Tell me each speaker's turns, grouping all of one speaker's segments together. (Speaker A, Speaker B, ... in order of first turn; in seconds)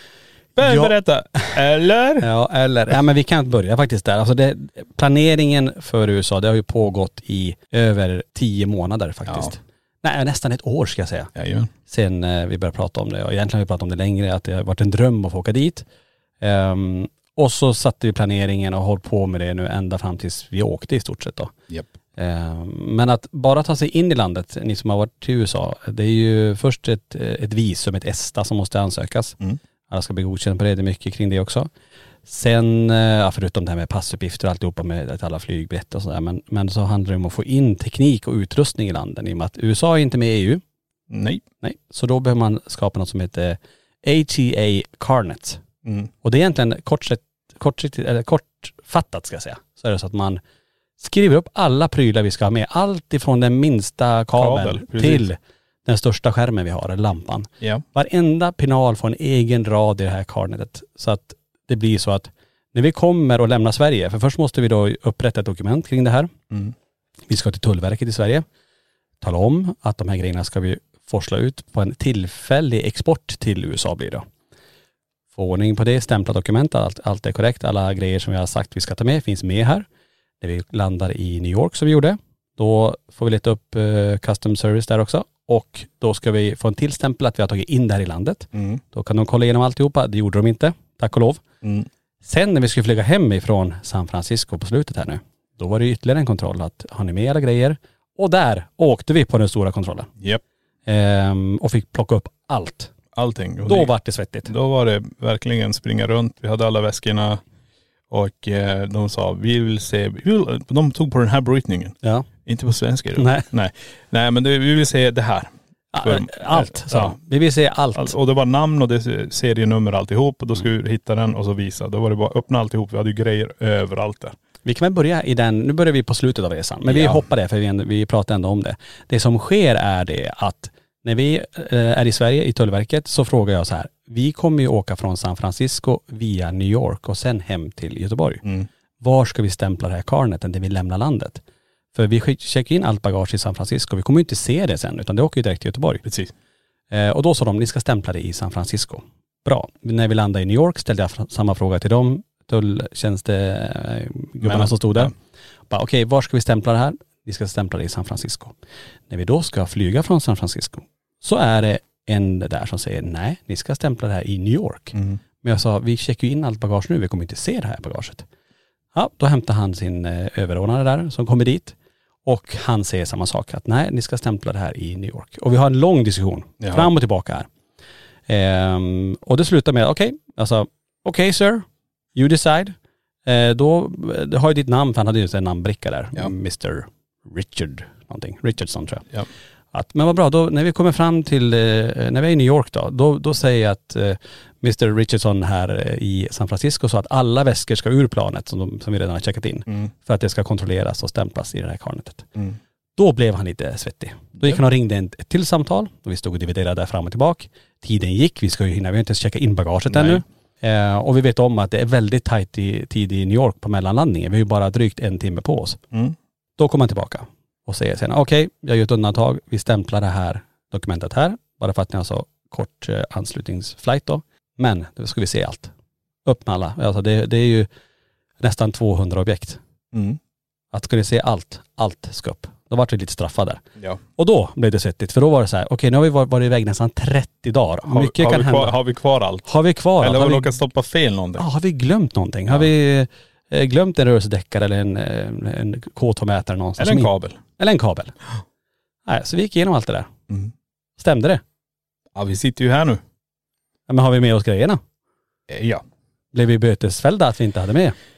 Speaker A: 0.6-2.3, 9.3-9.5, 11.4-11.7, 41.1-41.4, 45.9-46.1, 54.4-55.2, 88.5-88.8, 91.6-91.9, 103.2-103.9, 104.5-107.4, 108.1-117.2, 118.0-124.3, 126.8-127.3, 146.0-146.3, 154.4-155.1, 164.9-165.2, 176.6-176.9, 209.9-210.2, 229.9-230.2, 237.9-239.5, 240.0-241.4, 246.8-247.4, 252.2-253.0, 255.5-255.8
Speaker B: 0.7-0.9, 2.2-11.3, 11.9-15.8, 16.4-21.5, 22.2-29.4, 29.9-31.7, 32.3-40.6, 41.6-45.6, 46.2-50.4, 51.0-66.3, 67.3-68.5, 69.2-74.2, 75.4-79.8, 80.4-91.4, 92.2-100.1, 100.9-102.9, 103.7-104.5, 112.0-112.3, 113.2-113.5, 115.9-118.2, 124.7-138.4, 139.0-141.4, 141.9-146.0, 146.9-155.1, 155.7-158.5, 159.1-168.2, 168.9-171.8, 172.3-177.5, 178.3-182.7, 183.2-189.1, 189.7-202.3, 203.0-215.8, 216.6-225.7, 226.3-227.7, 228.4-229.6, 230.7-233.6, 234.2-238.8, 239.5-240.5, 241.4-248.1, 249.1-250.1, 251.0-251.4, 253.9-254.8, 256.3-258.0